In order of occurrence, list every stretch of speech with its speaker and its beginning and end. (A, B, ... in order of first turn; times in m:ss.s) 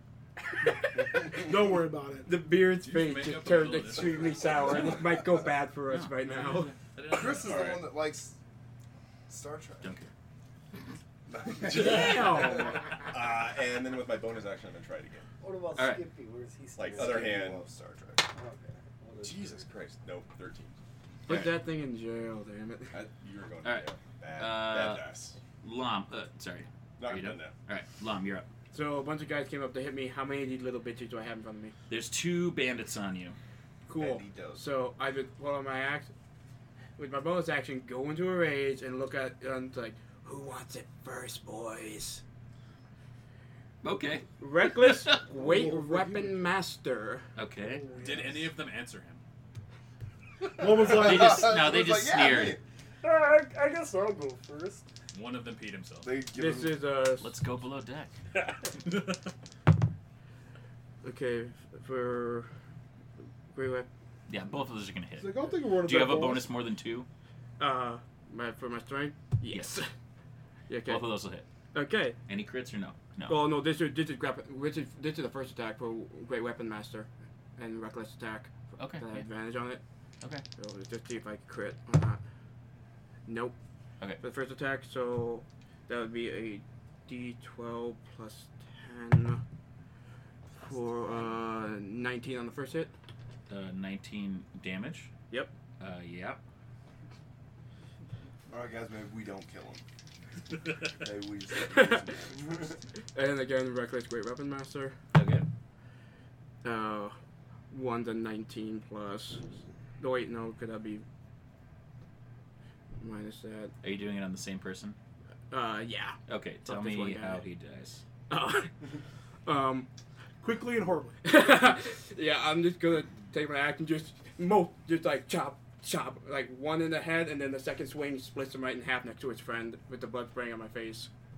0:01.1-0:02.4 A
0:02.2-0:06.7 B
0:02.8-0:04.4 C
0:05.9-0:06.8 D
0:06.6-0:07.7 C
0:07.1-0:08.4 E
0:07.4-0:07.8 F
0:09.3-0:10.0 E
0:09.8-0:10.1 D
0:11.3-0:12.3 E
0:11.6-0:15.3 F
0:11.6-0:12.9 B
0:15.4-0:17.6 G
0:15.8-0:16.0 D
0:16.8-0:17.6 F
0:17.0-0:18.2 E
0:18.2-0:19.7 G
0:19.2-0:20.7 F
0:21.3-0:22.9 B
0:21.3-0:21.6 D
0:22.9-0:25.4 F
0:23.6-0:28.5 D
0:27.0-0:27.5 F
0:28.7-0:31.7 B
0:31.9-0:33.4 D
0:33.9-0:36.1 B
0:33.9-0:34.6 E
0:37.0-0:42.2 B
0:43.8-0:45.2 D
0:44.4-0:47.2 B
0:45.3-0:46.5 A
0:47.4-0:47.8 D
0:47.6-0:48.6 A
0:47.9-0:49.2 C
0:50.6-0:51.5 A
0:50.6-0:52.6 E
0:50.8-0:52.6 D
0:53.0-0:54.8 G
0:55.1-0:56.1 C
0:56.0-0:56.8 E
0:56.3-0:57.3 B
0:57.2-0:58.1 D
0:58.8-0:59.2 C
1:01.0-1:02.5 B
1:03.5-1:03.9 B
1:04.3-1:07.1 D
1:05.2-1:06.6 A
1:07.6-1:09.9 B
1:09.5-1:09.8 D
1:10.7-1:11.1 B
1:10.8-1:11.4 D
1:11.7-1:12.2 B
1:12.3-1:13.5 D
1:13.3-1:19.8 B
1:18.8-1:19.2 D
1:20.6-1:22.2 B
1:23.2-1:23.6 B
1:24.2-1:29.4 B
1:30.6-1:32.9 B
1:33.5-1:35.1 D
1:35.8-1:36.4 D
1:38.5-1:39.8 E
1:41.0-1:42.8 E
1:41.7-1:42.0 B
1:43.1-1:45.0 B
1:45.1-1:45.4 D
1:46.6-1:47.2 B
1:47.7-1:49.4 B
1:50.0-1:51.0 B
1:53.0-1:53.7 B
1:53.8-1:55.0 D
1:55.5-1:57.4 B
1:56.3-1:58.0 D
1:58.3-1:58.8 B
1:59.4-1:59.9 B
2:00.4-2:01.3 A
2:01.2-2:11.1 B